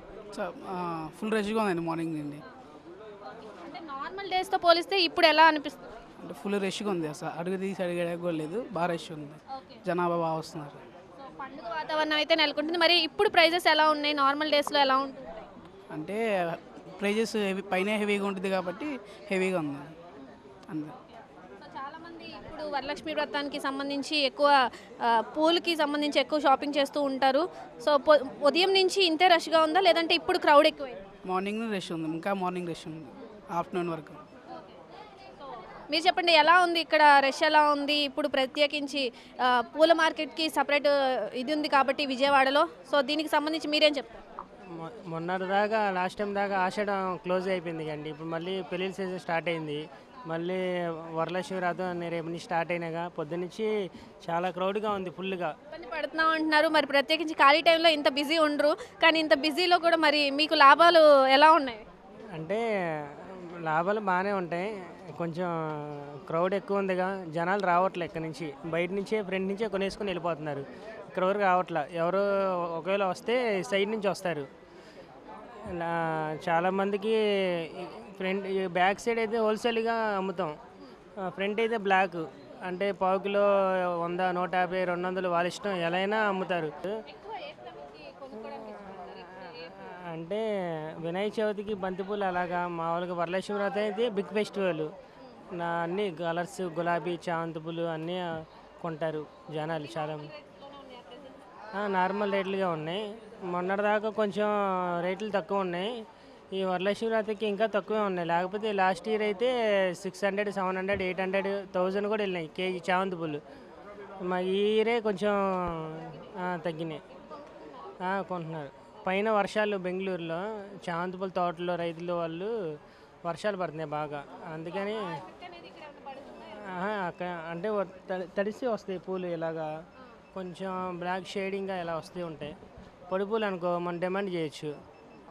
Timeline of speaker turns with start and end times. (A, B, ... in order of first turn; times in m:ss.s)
0:00.3-0:02.4 A
0:03.3-0:06.0 B
0:06.2-0:10.8 A
0:09.5-0:09.8 B
0:11.2-0:15.5 B
0:15.9-0:19.9 A
0:21.0-0:31.0 B
0:31.3-0:34.2 A
0:34.5-0:34.8 B
0:35.9-0:44.2 B
0:44.7-0:53.7 C
0:54.2-0:55.5 C
0:55.7-1:01.8 B
1:02.4-1:14.5 C
1:15.6-1:20.5 C
1:21.2-1:26.9 C
1:27.0-1:29.8 B
1:28.3-1:30.4 C
1:31.0-1:34.9 C
1:35.5-1:40.3 C
1:39.8-1:41.4 B
1:41.7-1:46.0 C
1:46.5-1:53.4 C
1:54.2-1:57.0 C
1:57.1-1:57.9 B
1:58.0-2:02.5 C
2:03.2-2:05.2 C
2:04.7-2:06.8 B
2:06.5-2:09.7 C
2:10.3-2:12.6 C
2:13.1-2:14.7 C